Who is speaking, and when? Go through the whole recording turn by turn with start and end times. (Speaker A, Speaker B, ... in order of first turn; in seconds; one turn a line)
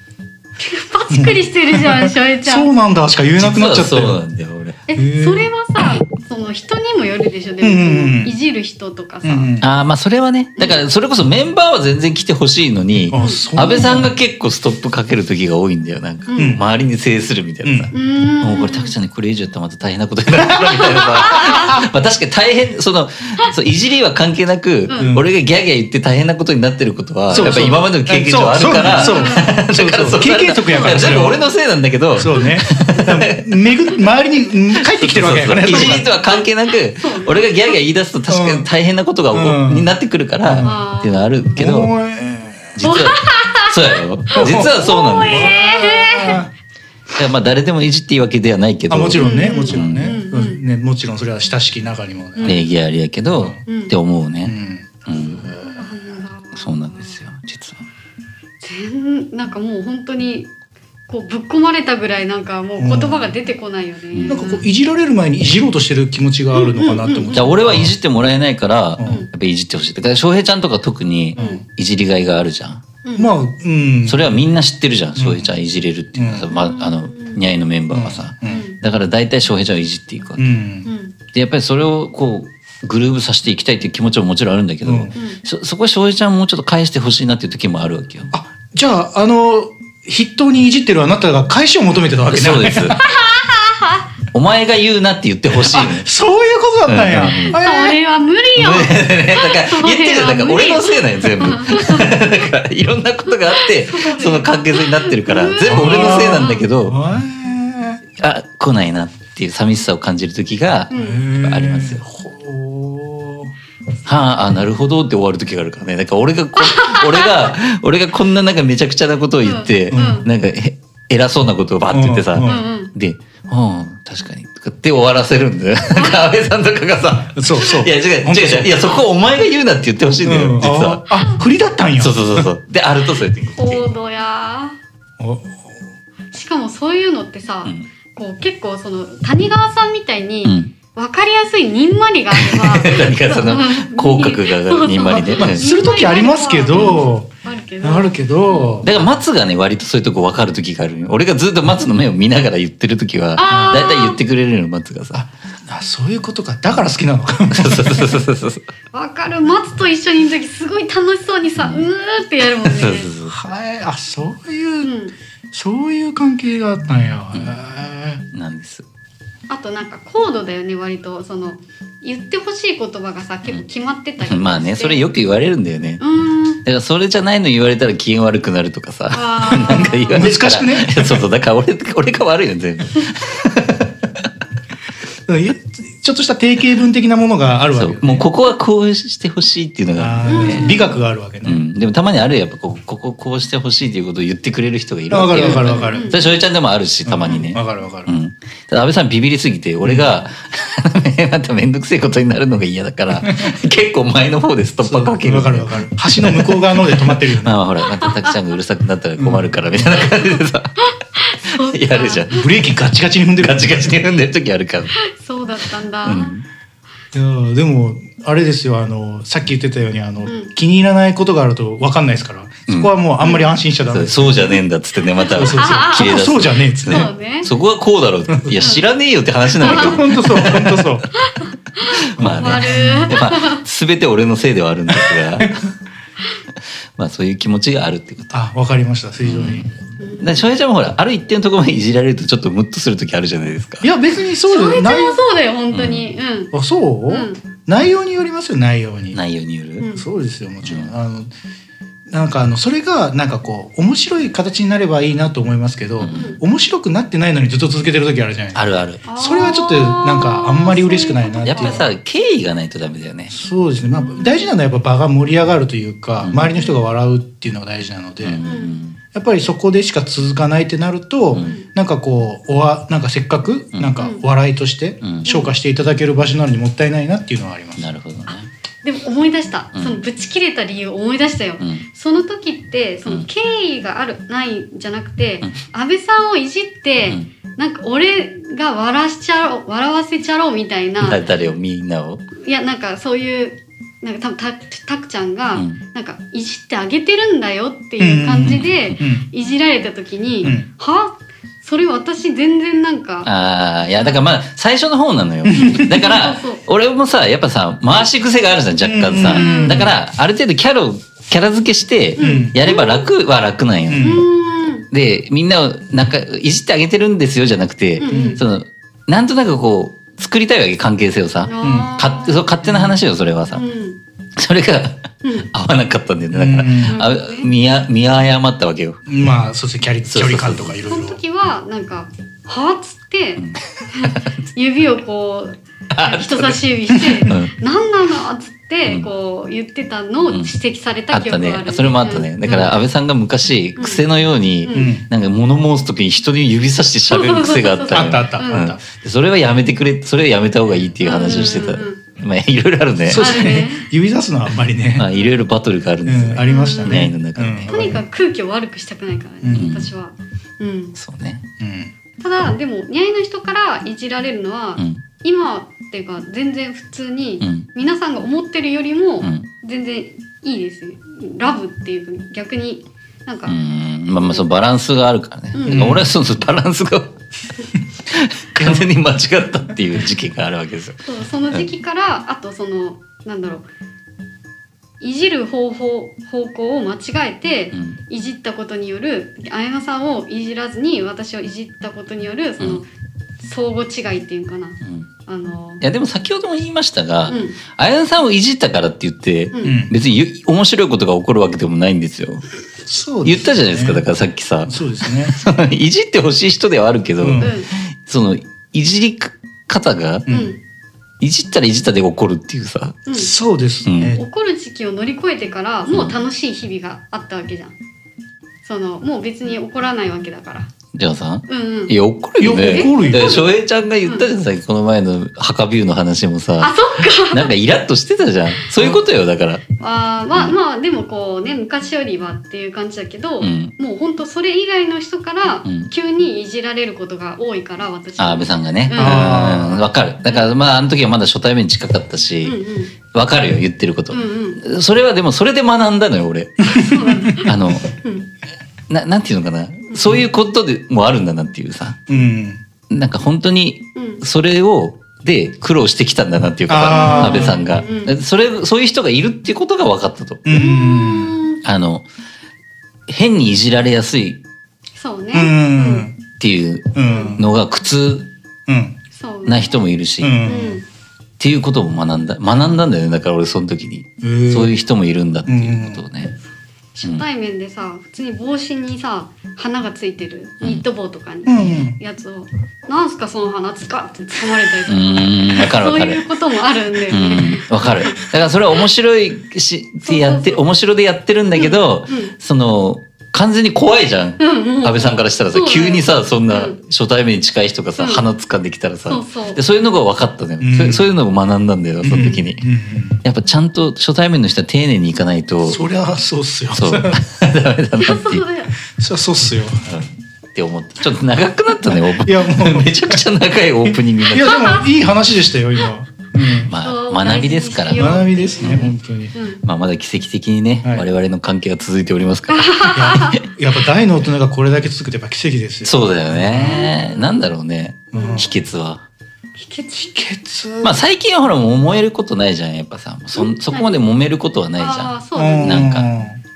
Speaker A: 0.6-2.7
Speaker B: 1.1-4.2
Speaker C: 3.4-4.8
Speaker A: 4.9-9.5
Speaker B: 5.0-5.5
Speaker B: 7.6-8.3
Speaker B: 9.2-9.7
Speaker C: 9.6-33.5
Speaker A: 10.6-10.8
Speaker B: 13.1-14.1
Speaker A: 13.2-13.9
Speaker A: 16.3-16.6
Speaker B: 16.4-16.6
Speaker B: 17.6-17.9
Speaker A: 17.9-18.9
Speaker B: 20.4-21.8
Speaker A: 21.2-21.8
Speaker A: 24.9-25.2
Speaker B: 25.0-25.3
Speaker B: 27.3-31.5
Speaker A: 27.3-27.9
Speaker A: 28.8-29.5
Speaker B: 32.1-36.1
Speaker C: 34.9-41.9
Speaker A: 35.7-36.4
Speaker A: 37.0-37.7
Speaker B: 38.3-38.7
Speaker B: 39.3-39.9
Speaker B: 40.4-40.8
Speaker A: 40.6-41.6
Speaker B: 41.6-42.8
Speaker C: 42.8-45.5
Speaker A: 42.8-46.4
Speaker B: 44.4-46.5
Speaker C: 47.1-50.2
Speaker B: 48.9-52.6
Speaker A: 49.2-50.6
Speaker A: 52.4-52.6
Speaker C: 52.4-55.5
Speaker A: 53.7-54.0
Speaker B: 54.4-56.0
Speaker A: 55.7-57.2
Speaker C: 56.5-57.8
Speaker A: 58.6-60.5
Speaker A: 61.1-64.7
Speaker B: 62.8-63.4
Speaker C: 64.1-64.5
Speaker B: 64.3-68.0
Speaker A: 66.5-67.5
Speaker C: 67.3-72.8
Speaker B: 69.0-69.3
Speaker A: 69.0-69.3
Speaker A: 71.3-71.6
Speaker B: 71.4-71.6
Speaker A: 73.0-73.3
Speaker B: 73.2-74.4
Speaker C: 74.1-80.5
Speaker B: 75.2-75.5
Speaker B: 76.2-76.5
Speaker A: 76.5-77.4
Speaker B: 77.9-78.6
Speaker A: 78.5-78.8
Speaker B: 80.4-80.9
Speaker A: 80.8-81.2
Speaker C: 81.3-88.3
Speaker B: 84.8-85.1
Speaker A: 85.2-85.4
Speaker B: 88.3-93.0
Speaker C: 92.3-93.0
Speaker A: 93.0-94.1
Speaker C: 94.3-96.1
Speaker B: 95.5-98.0
Speaker C: 96.9-97.6
Speaker A: 97.5-102.3
Speaker C: 98.5-107.0
Speaker A: 103.5-106.7
Speaker B: 105.7-108.0
Speaker C: 108.2-112.0
Speaker A: 110.9-111.2
Speaker B: 110.9-113.5
Speaker C: 114.0-131.1
Speaker A: 116.6-117.5
Speaker A: 119.4-120.3
Speaker B: 119.9-120.2
Speaker B: 121.9-122.6
Speaker A: 122.4-122.9
Speaker A: 125.9-126.2
Speaker B: 127.3-128.9
Speaker B: 130.2-132.5
Speaker C: 132.0-133.9
Speaker A: 133.6-134.8
Speaker B: 135.2-135.8
Speaker A: 136.3-149.1
Speaker C: 140.4-140.7
Speaker C: 142.3-145.6
Speaker B: 145.1-147.3
Speaker C: 146.7-147.0
Speaker B: 147.8-148.9
Speaker C: 148.8-155.2
Speaker A: 153.4-154.2
Speaker B: 153.5-153.9
Speaker B: 155.1-158.2
Speaker C: 157.5-158.7
Speaker A: 158.9-163.1
Speaker C: 161.6-161.8
Speaker C: 162.6-163.4
Speaker B: 163.3-164.9
Speaker A: 164.8-165.2
Speaker B: 165.5-168.2
Speaker C: 168.3-168.8
Speaker A: 169.5-175.1
Speaker C: 174.2-176.0
Speaker A: 176.0-176.6
Speaker C: 176.7-183.9
Speaker A: 179.1-180.3
Speaker B: 179.5-181.2
Speaker B: 185.3-188.3
Speaker C: 187.8-190.8
Speaker B: 190.0-191.6
Speaker A: 190.3-191.0
Speaker C: 191.4-210.9
Speaker B: 195.1-196.1
Speaker A: 195.4-196.3
Speaker B: 197.1-198.1
Speaker B: 199.8-200.1
Speaker B: 203.2-203.5
Speaker B: 204.8-207.6
Speaker A: 208.0-208.3
Speaker B: 209.2-210.1
Speaker A: 210.1-212.3
Speaker C: 211.5-212.5
Speaker B: 212.3-214.0
Speaker C: 213.4-215.0
Speaker A: 214.9-216.3
Speaker C: 216.0-216.4
Speaker B: 217.1-224.6
Speaker A: 220.2-220.5
Speaker C: 223.9-231.1
Speaker A: 225.2-226.2
Speaker B: 225.3-227.1
Speaker A: 226.9-227.5
Speaker B: 228.3-228.7
Speaker B: 229.6-231.1
Speaker A: 229.6-230.2
Speaker A: 231.1-233.6
Speaker C: 231.8-235.6
Speaker B: 232.2-233.2
Speaker C: 237.0-238.4
Speaker B: 238.3-239.7
Speaker C: 239.2-243.9
Speaker A: 240.0-240.5
Speaker B: 243.8-245.2
Speaker A: 244.5-246.5
Speaker C: 245.7-246.2
Speaker B: 246.5-249.2
Speaker A: 247.1-247.4
Speaker C: 249.1-249.9
Speaker A: 249.8-250.1
Speaker B: 249.9-251.3
Speaker C: 250.6-250.9
Speaker B: 252.1-258.6
Speaker C: 256.0-256.3
Speaker A: 256.1-256.4
Speaker C: 258.6-259.0
Speaker A: 259.1-261.9
Speaker B: 259.1-261.9
Speaker C: 261.4-263.3
Speaker B: 263.3-268.5
Speaker A: 263.9-264.5
Speaker C: 266.2-266.5
Speaker C: 268.2-269.0
Speaker A: 268.4-268.8
Speaker B: 269.1-277.9
Speaker A: 271.4-271.7
Speaker C: 275.0-275.3
Speaker A: 275.2-275.5
Speaker C: 277.8-278.5
Speaker A: 278.8-291.2
Speaker C: 279.8-280.0
Speaker C: 281.6-281.8
Speaker C: 291.0-292.2
Speaker A: 292.4-303.3
Speaker C: 295.6-295.8
Speaker B: 298.0-299.3
Speaker C: 298.4-299.0
Speaker C: 303.2-314.2
Speaker A: 303.9-304.2
Speaker B: 305.4-306.1
Speaker A: 305.6-306.6
Speaker B: 308.8-309.9
Speaker A: 309.2-309.9
Speaker A: 312.2-313.1
Speaker B: 312.2-312.6
Speaker B: 313.9-314.2
Speaker A: 314.0-314.9
Speaker C: 314.9-323.6
Speaker A: 318.0-318.4
Speaker B: 318.1-318.4
Speaker A: 321.5-322.5
Speaker B: 321.6-321.9
Speaker B: 322.6-323.0
Speaker A: 323.5-324.0
Speaker C: 324.4-329.0
Speaker A: 325.2-325.5
Speaker B: 326.3-327.0
Speaker A: 326.9-327.5
Speaker B: 329.1-331.2
Speaker C: 330.1-330.8
Speaker A: 330.9-342.8
Speaker C: 333.4-334.4
Speaker C: 335.9-336.6
Speaker B: 336.9-337.3
Speaker C: 337.3-337.5
Speaker C: 341.1-353.4
Speaker A: 343.8-344.0
Speaker A: 344.6-345.0
Speaker B: 344.7-345.1
Speaker A: 347.1-348.6
Speaker B: 347.9-348.8
Speaker A: 351.0-352.0
Speaker B: 353.1-355.1
Speaker A: 353.1-353.9
Speaker C: 355.0-357.7
Speaker B: 356.1-358.0
Speaker A: 356.5-357.0
Speaker A: 357.7-361.0
Speaker B: 359.4-359.7
Speaker C: 359.5-359.9
Speaker C: 361.0-361.5
Speaker B: 361.6-361.9
Speaker A: 362.2-373.6
Speaker C: 364.8-365.0
Speaker C: 367.4-367.7
Speaker C: 369.2-369.5
Speaker C: 373.5-377.2
Speaker A: 374.2-374.5
Speaker A: 375.5-376.0
Speaker B: 375.7-376.1
Speaker C: 378.1-381.7
Speaker B: 378.6-378.9
Speaker A: 381.1-383.7
Speaker A: 385.0-392.9
Speaker C: 387.7-388.0
Speaker A: 393.4-395.8
Speaker C: 394.8-395.1
Speaker C: 395.8-402.5
Speaker A: 397.3-397.6
Speaker A: 399.5-399.8
Speaker B: 399.6-399.9
Speaker B: 402.9-404.0
Speaker C: 403.2-410.3
Speaker B: 404.7-405.4
Speaker B: 407.2-407.5
Speaker A: 407.4-407.7
Speaker B: 410.3-410.5
Speaker A: 410.3-410.6
Speaker C: 411.2-413.0
Speaker A: 413.1-413.3
Speaker B: 413.1-414.2
Speaker C: 413.9-414.2
Speaker A: 414.1-417.8
Speaker C: 415.9-416.2
Speaker A: 418.6-420.7
Speaker C: 420.9-429.7
Speaker A: 421.5-422.0
Speaker B: 422.4-423.4
Speaker A: 422.5-423.5
Speaker A: 426.6-427.5
Speaker A: 429.8-440.5
Speaker C: 433.4-433.7
Speaker C: 435.6-435.9
Speaker C: 438.2-442.6
Speaker B: 439.0-439.8
Speaker A: 442.4-442.9
Speaker C: 443.1-446.7
Speaker A: 444.1-444.6
Speaker A: 446.7-448.3
Speaker B: 446.7-447.4
Speaker C: 447.4-447.9
Speaker C: 448.9-452.1
Speaker A: 449.9-450.2
Speaker B: 452.1-452.6
Speaker C: 452.9-460.5
Speaker A: 454.0-454.2
Speaker B: 456.7-457.6
Speaker A: 456.9-458.1
Speaker B: 460.4-461.4
Speaker A: 460.5-461.6
Speaker C: 461.6-462.1
Speaker C: 463.1-464.4
Speaker A: 465.0-466.1
Speaker B: 465.3-466.2
Speaker C: 466.4-468.3
Speaker B: 466.9-467.4
Speaker A: 467.1-467.4
Speaker B: 468.7-469.0
Speaker A: 469.1-469.8
Speaker C: 469.4-470.5
Speaker B: 470.2-470.8
Speaker A: 470.4-470.9
Speaker C: 471.4-476.4
Speaker B: 474.2-474.8
Speaker B: 475.5-476.0
Speaker A: 477.0-488.3
Speaker B: 481.5-482.0
Speaker C: 484.9-486.2
Speaker C: 487.1-502.7
Speaker A: 490.1-490.6
Speaker A: 491.5-492.3
Speaker A: 494.4-496.8
Speaker A: 498.0-498.2
Speaker A: 499.1-499.6
Speaker B: 500.6-501.1
Speaker B: 502.0-503.2
Speaker A: 502.1-502.4
Speaker C: 503.2-505.8
Speaker B: 505.6-507.2
Speaker C: 506.7-508.4
Speaker A: 508.0-508.8
Speaker B: 508.9-509.9
Speaker C: 509.9-514.8
Speaker B: 511.9-513.2
Speaker B: 513.9-516.7
Speaker A: 514.5-514.8
Speaker A: 516.6-519.6
Speaker C: 516.7-518.9
Speaker B: 518.0-519.4
Speaker C: 519.6-523.4
Speaker A: 522.5-523.4
Speaker B: 522.9-526.9
Speaker C: 525.8-529.1
Speaker A: 526.5-527.5
Speaker B: 528.1-528.5
Speaker A: 528.1-528.5
Speaker A: 529.6-530.1
Speaker B: 529.9-531.0
Speaker C: 530.8-536.1
Speaker A: 533.4-534.0
Speaker A: 534.8-535.9
Speaker B: 535.4-536.4